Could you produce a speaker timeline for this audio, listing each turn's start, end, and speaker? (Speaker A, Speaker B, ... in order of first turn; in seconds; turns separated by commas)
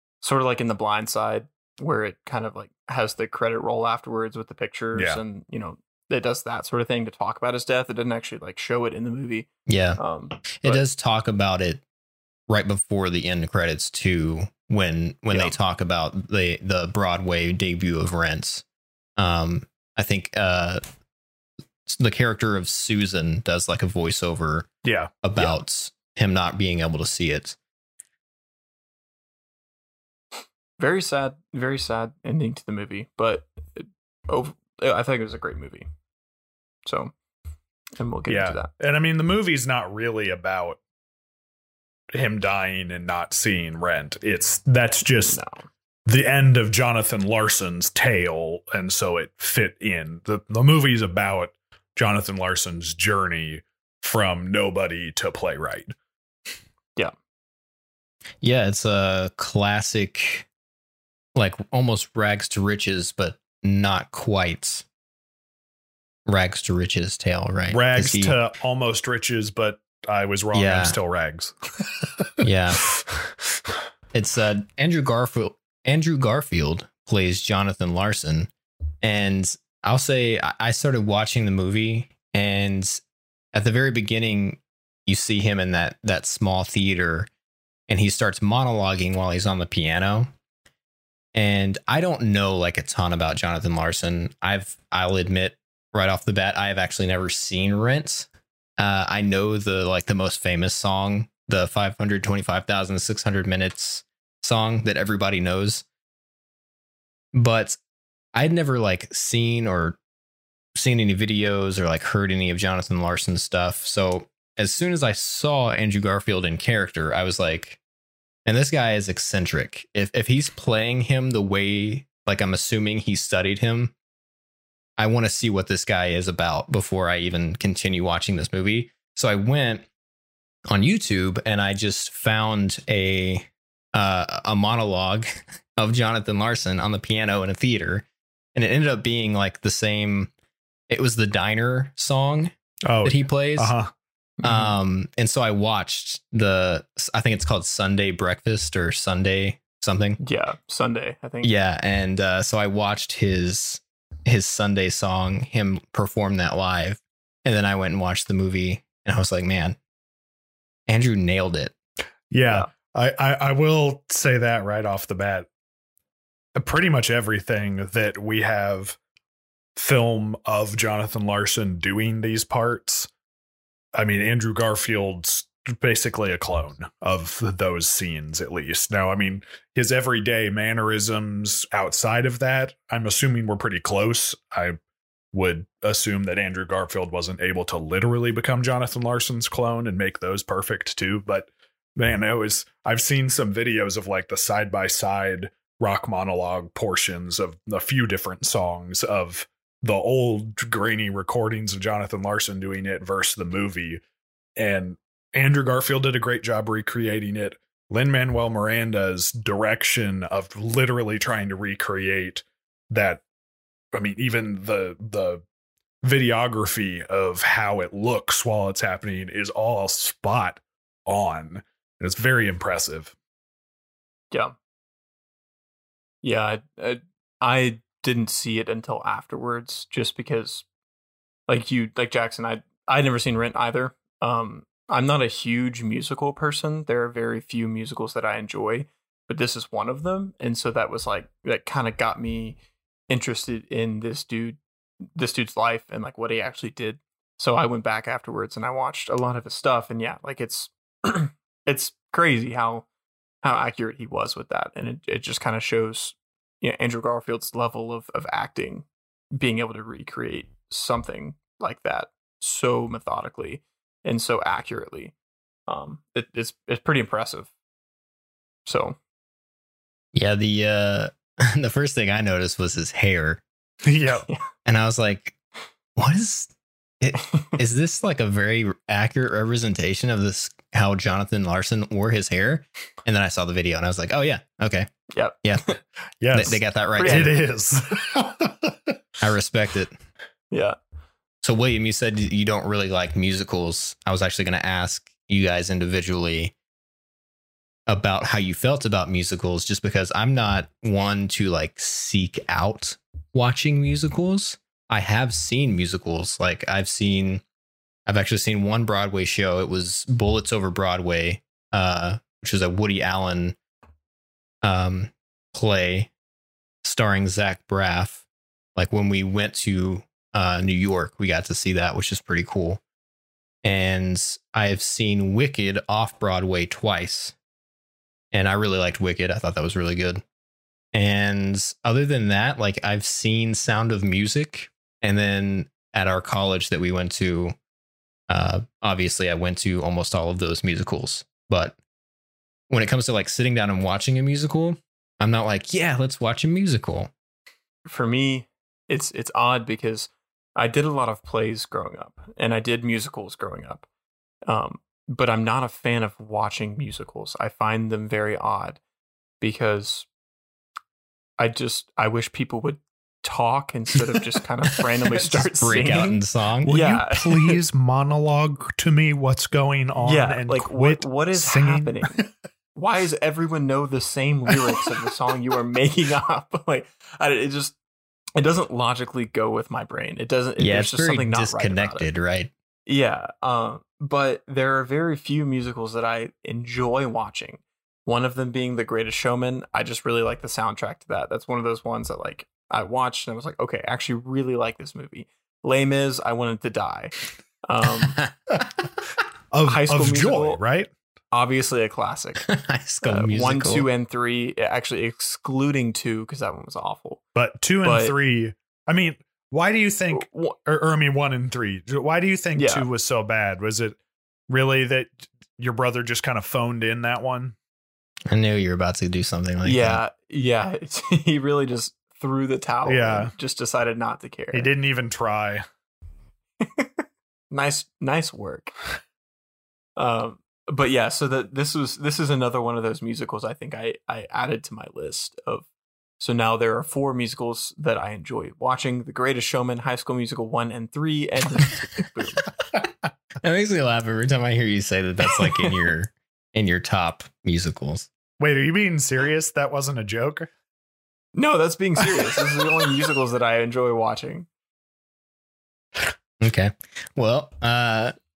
Speaker A: 0.2-10.8, Speaker B: 5.0-5.2, Speaker C: 9.7-10.0, Speaker C: 10.5-11.8, Speaker C: 12.5-18.6, Speaker C: 19.2-20.8, Speaker C: 21.9-24.7, Speaker B: 24.8-25.1, Speaker C: 25.2-27.6, Speaker A: 30.8-35.9, Speaker A: 36.9-37.1, Speaker A: 38.0-38.7, Speaker B: 38.3-40.8, Speaker B: 42.1-45.4, Speaker A: 45.3-45.7, Speaker B: 46.1-55.9, Speaker C: 58.4-60.5, Speaker C: 61.4-64.9, Speaker C: 66.3-68.4, Speaker B: 67.7-72.3, Speaker C: 70.5-71.0, Speaker C: 72.4-72.8, Speaker B: 73.0-73.3, Speaker C: 74.1-78.5, Speaker C: 79.0-83.0, Speaker C: 83.5-87.3, Speaker C: 87.9-90.3, Speaker C: 91.3-98.3, Speaker C: 98.8-105.8, Speaker C: 107.3-107.8, Speaker C: 108.3-110.0, Speaker C: 110.8-117.8, Speaker C: 118.5-123.9, Speaker C: 125.0-129.9, Speaker C: 130.7-140.3, Speaker C: 140.9-143.7, Speaker B: 142.9-143.9, Speaker A: 144.4-144.7, Speaker C: 144.4-150.2, Speaker A: 150.2-151.5, Speaker C: 151.4-159.8, Speaker C: 160.9-161.7, Speaker B: 162.3-165.5, Speaker B: 166.6-169.0, Speaker B: 169.8-173.1, Speaker B: 173.9-184.8, Speaker B: 185.3-204.0, Speaker B: 204.6-213.2, Speaker B: 213.9-215.4, Speaker B: 216.0-223.2, Speaker A: 226.2-230.7, Speaker A: 231.5-244.6, Speaker A: 245.2-252.8, Speaker A: 253.4-265.1, Speaker A: 265.7-267.5, Speaker A: 268.7-269.0, Speaker C: 270.1-273.4, Speaker B: 273.8-274.3, Speaker C: 274.7-275.4, Speaker C: 276.0-284.9, Speaker A: 277.2-277.6, Speaker A: 285.1-285.8, Speaker C: 285.4-285.7, Speaker B: 286.2-288.9, Speaker C: 286.3-287.3, Speaker A: 287.0-287.4, Speaker C: 289.2-289.9, Speaker A: 290.5-290.8, Speaker C: 291.4-296.5, Speaker C: 297.9-307.4, Speaker C: 308.1-313.6, Speaker C: 314.6-316.1, Speaker C: 316.8-318.2, Speaker C: 318.8-322.8, Speaker C: 323.6-327.4, Speaker C: 328.3-330.2, Speaker C: 330.9-337.6, Speaker C: 338.3-341.8, Speaker C: 342.7-347.1, Speaker A: 347.9-353.9, Speaker A: 354.5-358.8, Speaker A: 359.4-360.1, Speaker A: 361.4-367.6, Speaker C: 365.3-366.8, Speaker B: 366.6-372.3, Speaker A: 370.1-372.1, Speaker A: 372.8-377.8, Speaker A: 378.4-382.1, Speaker C: 380.6-382.5, Speaker A: 382.9-398.2, Speaker B: 399.5-400.9, Speaker A: 399.6-400.6, Speaker A: 401.3-402.5, Speaker C: 402.4-403.9, Speaker A: 403.1-407.2, Speaker B: 407.4-414.0, Speaker A: 407.8-408.1, Speaker A: 410.1-410.5, Speaker A: 412.6-412.9, Speaker B: 414.5-417.6, Speaker C: 418.3-420.0, Speaker A: 419.6-424.7, Speaker B: 422.9-423.3, Speaker B: 424.5-425.6, Speaker A: 426.6-428.7, Speaker A: 430.0-435.7, Speaker A: 436.2-442.5, Speaker C: 443.4-448.1, Speaker A: 445.4-445.7, Speaker B: 448.4-450.5, Speaker A: 451.4-454.5, Speaker B: 452.1-453.0, Speaker C: 456.4-458.1